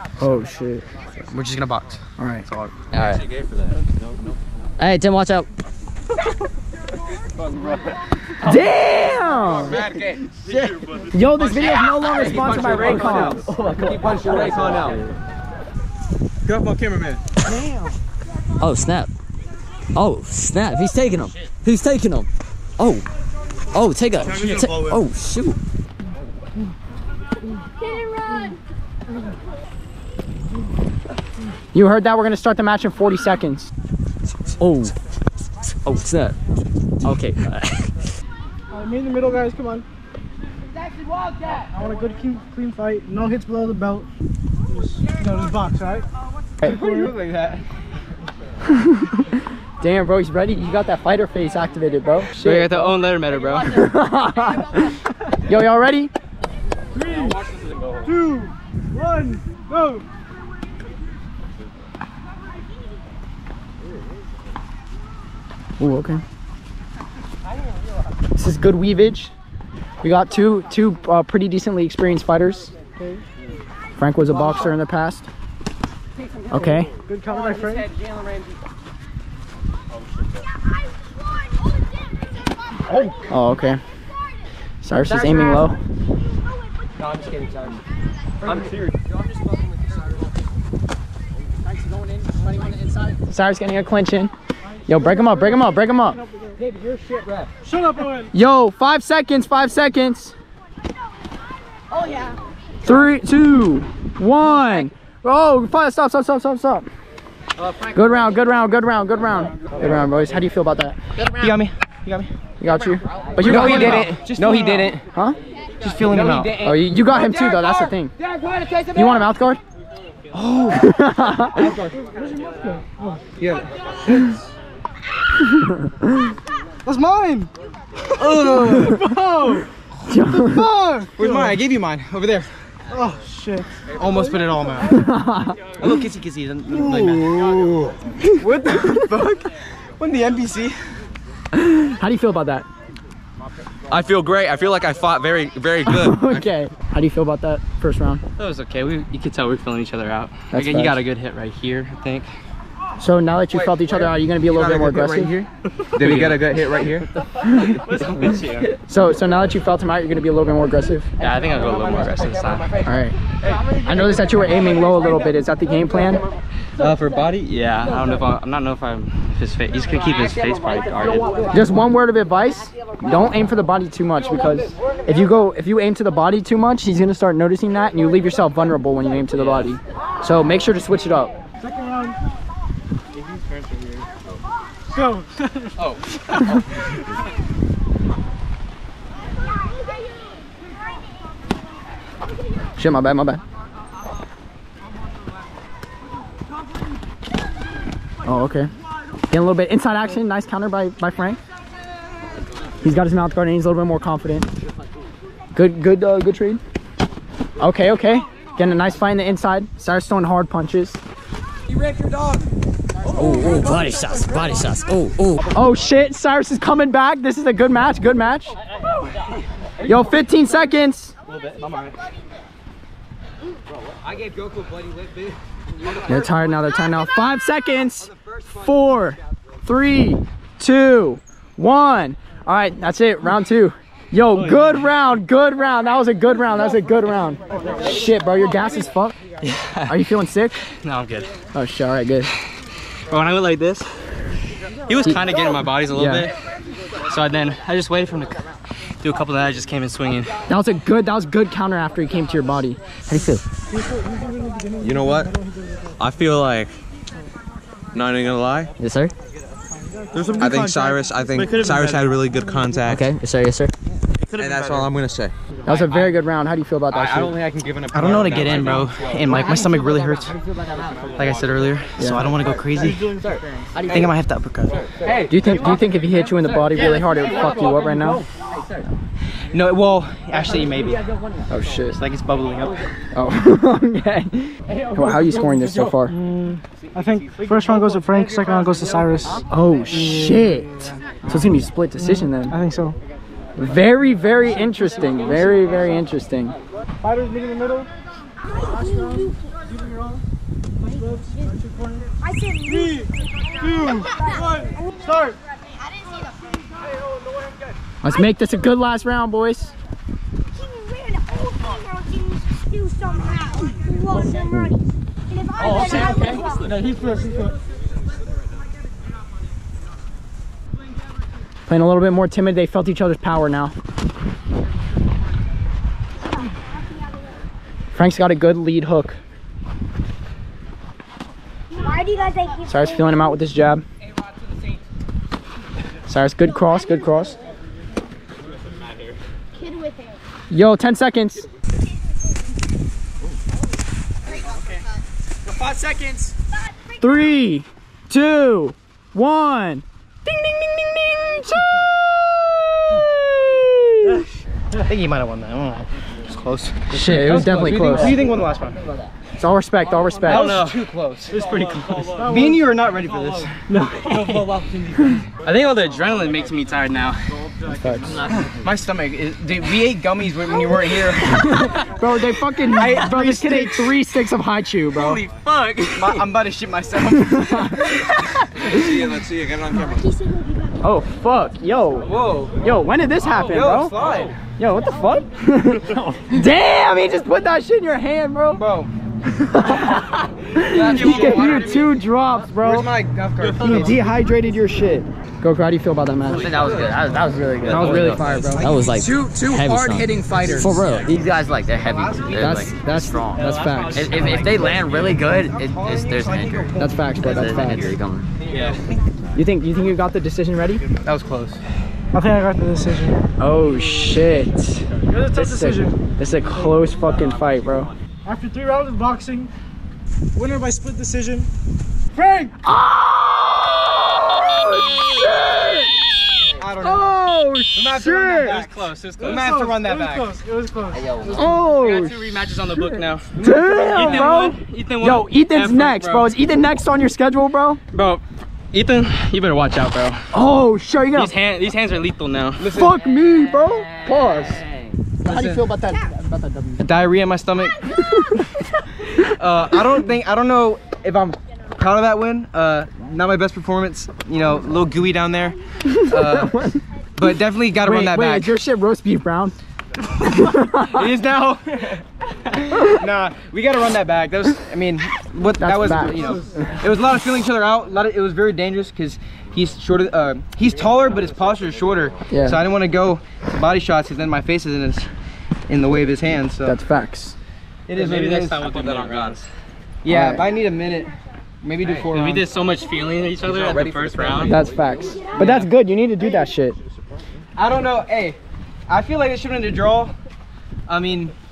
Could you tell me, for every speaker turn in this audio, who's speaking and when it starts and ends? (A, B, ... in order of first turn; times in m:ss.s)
0:00.2-0:00.8 A
0:01.2-0:02.8 B
0:02.2-0:02.4 A
0:02.9-0:03.2 C
0:04.8-0:05.5 C
0:08.4-0:09.9 A
0:11.1-0:13.7 A
0:16.5-0:17.2 B
0:18.6-0:19.1 C
0:19.9-0:23.0 C
0:23.7-0:25.6 C
0:28.1-0:28.5 D
0:31.7-0:33.7 A
0:34.6-0:34.9 C
0:35.8-0:36.4 C
0:37.0-0:38.1 C
0:38.7-0:39.8 E
0:41.6-0:44.1 E
0:44.8-0:46.0 E
0:46.6-0:47.6 B
0:48.7-0:52.9 A
0:52.4-0:53.8 F
0:53.7-0:56.1 A
0:57.0-0:57.4 E
0:58.0-1:00.0 E
1:05.8-1:06.2 A
1:08.4-1:09.3 A
1:10.0-1:12.7 A
1:14.0-1:15.3 A
1:16.5-1:16.9 A
1:17.1-1:17.9 E
1:23.3-1:23.8 A
1:24.8-1:25.8 A
1:27.0-1:27.8 B
1:33.0-1:34.3 A
1:34.9-1:36.2 A
1:37.6-1:38.3 E
1:38.3-1:40.3 A
1:42.8-1:46.9 A
1:47.9-1:51.0 A
1:51.2-1:52.3 B
1:52.6-1:54.1 A
1:53.4-1:54.9 F
1:53.4-1:55.0 B
1:55.8-1:56.6 B
1:56.1-1:56.8 F
1:56.6-1:58.1 A
1:58.9-1:59.6 A
2:00.3-2:00.8 B
2:00.7-2:01.7 A
2:01.6-2:01.9 B
2:02.2-2:03.2 E
2:03.4-2:04.4 B
2:05.4-2:06.2 A
2:06.8-2:07.5 E
2:08.2-2:09.1 B
2:08.6-2:09.7 E
2:10.0-2:10.7 A
2:10.4-2:11.6 E
2:11.1-2:12.7 B
2:12.9-2:14.3 E
2:14.0-2:14.9 B
2:14.9-2:15.6 A
2:15.8-2:20.8 B
2:21.5-2:22.6 A
2:23.9-2:26.4 G
2:25.8-2:28.2 A
2:28.4-2:32.3 F
2:30.5-2:31.0 A
2:33.0-2:35.3 A
2:34.5-2:37.0 G
2:35.9-2:36.5 F
2:37.5-2:37.8 A
2:37.6-2:38.7 F
2:38.9-2:41.1 A
2:41.2-2:42.7 F
2:42.8-2:43.1 A
2:43.8-2:46.2 A
2:46.8-2:51.5 F
2:51.5-3:01.4 A
3:01.6-3:02.2 E
3:04.9-3:05.3 E
3:05.9-3:06.6 F
3:12.8-3:13.4 A
3:18.2-3:18.7 A
3:19.3-3:21.4 A
3:22.8-3:24.5 A
3:25.5-3:26.6 A
3:27.6-3:31.0 A
3:33.2-3:33.6 A
3:33.2-3:35.4 C
3:35.5-3:38.5 A
3:39.8-3:41.1 A
3:41.4-3:41.9 F
3:46.0-3:59.2 A
3:54.3-3:54.9 F
3:59.4-4:00.0 F
3:59.9-4:00.6 A
4:00.8-4:01.3 F
4:01.5-4:02.3 A
4:03.1-4:04.0 F
4:04.8-4:06.4 F
4:05.9-4:06.3 A
4:07.1-4:08.4 F
4:09.0-4:10.3 F
4:10.5-4:13.0 A
4:13.1-4:13.4 C
4:14.0-4:15.4 E
4:14.8-4:15.3 G
4:16.0-4:16.7 G
4:17.9-4:18.7 G
4:18.8-4:19.1 C
4:20.2-4:23.0 G
4:22.8-4:23.7 C
4:24.3-4:25.3 G
4:25.6-4:27.4 A
4:26.9-4:28.9 G
4:27.9-4:30.3 B
4:31.2-4:33.1 B
4:32.0-4:32.2 A
4:33.8-4:34.9 B
4:35.3-4:38.2 A
4:39.5-4:41.0 B
4:41.5-4:42.0 A
4:41.9-4:42.8 B
4:43.1-4:46.2 A
4:46.1-4:49.4 E
4:49.5-4:52.6 A
4:52.0-4:53.0 E
4:53.6-4:56.5 A
4:57.0-4:57.9 E
4:58.6-5:00.2 E
5:00.9-5:02.0 E
5:02.2-5:02.6 D
5:02.6-5:03.1 E
5:03.6-5:05.4 E
5:08.0-5:09.7 A
5:10.6-5:14.3 D
5:15.3-5:16.6 D
5:21.7-5:23.7 A
5:27.9-5:29.2 A
5:31.8-5:32.6 D
5:32.6-5:33.8 A
5:36.1-5:37.4 A
5:39.6-5:40.1 D
5:40.5-5:41.4 A
5:45.6-5:46.1 A
5:46.9-5:51.9 A
5:52.9-5:54.2 A
5:54.8-5:58.8 B
5:56.9-5:58.2 A
5:59.4-6:00.5 A
6:00.2-6:01.5 B
6:00.3-6:00.9 F
6:01.4-6:02.6 E
6:01.5-6:02.2 F
6:02.2-6:03.6 B
6:03.7-6:04.1 E
6:04.1-6:07.2 F
6:07.7-6:08.2 A
6:08.6-6:11.4 B
6:11.3-6:15.2 A
6:12.7-6:13.9 B
6:14.9-6:16.2 F
6:15.9-6:18.0 B
6:17.1-6:19.0 A
6:18.7-6:20.0 G
6:20.2-6:20.7 D
6:20.8-6:23.9 A
6:22.0-6:22.5 B
6:23.4-6:24.4 B
6:24.6-6:28.6 A
6:28.5-6:28.9 B
6:29.3-6:32.9 A
6:30.7-6:31.8 B
6:30.7-6:32.0 F
6:32.5-6:34.0 B
6:33.5-6:36.5 A
6:36.4-6:46.6 C
6:36.6-6:37.1 F
6:37.6-6:40.9 A
6:37.7-6:38.5 F
6:38.5-6:39.0 B
6:40.9-6:42.7 B
6:42.4-6:44.1 A
6:43.4-6:44.7 F
6:44.0-6:48.0 B
6:46.7-6:47.9 A
6:47.2-6:48.3 C
6:48.5-6:49.0 B
6:48.5-6:48.7 F
6:49.3-6:50.8 A
6:51.0-6:51.6 B
6:52.1-6:53.2 E
6:53.4-6:57.9 A
6:55.1-6:56.0 E
6:58.2-6:59.5 E
7:00.3-7:01.5 E
7:02.1-7:02.5 E
7:02.6-7:06.0 A
7:06.5-7:07.1 B
7:06.8-7:08.6 A
7:07.7-7:10.3 B
7:08.4-7:09.4 F
7:09.3-7:11.0 E
7:11.1-7:16.3 F
7:11.3-7:17.8 A
7:13.4-7:14.4 B
7:17.9-7:20.2 F
7:20.3-7:21.3 A
7:21.1-7:22.7 F
7:22.6-7:23.0 B
7:22.7-7:24.6 A
7:25.2-7:26.9 A
7:25.2-7:25.7 B
7:26.8-7:27.9 B
7:28.1-7:28.4 A
7:29.1-7:36.5 B
7:35.8-7:36.8 A
7:37.2-7:38.5 B
7:37.8-7:39.6 A
7:40.2-7:41.0 A
7:40.9-7:42.0 B
7:42.7-7:55.1 B
7:45.6-7:46.4 A
7:52.3-7:52.6 A
7:55.7-7:56.8 B
7:56.6-7:57.4 A
7:57.9-7:58.8 B
7:57.9-7:59.5 F
7:58.8-7:59.3 G
8:00.0-8:02.4 B
8:00.0-8:00.5 A
8:02.1-8:04.6 F
8:03.5-8:04.4 G
8:04.4-8:06.8 A
8:05.4-8:05.7 F
8:07.6-8:10.1 B
8:10.9-8:11.3 B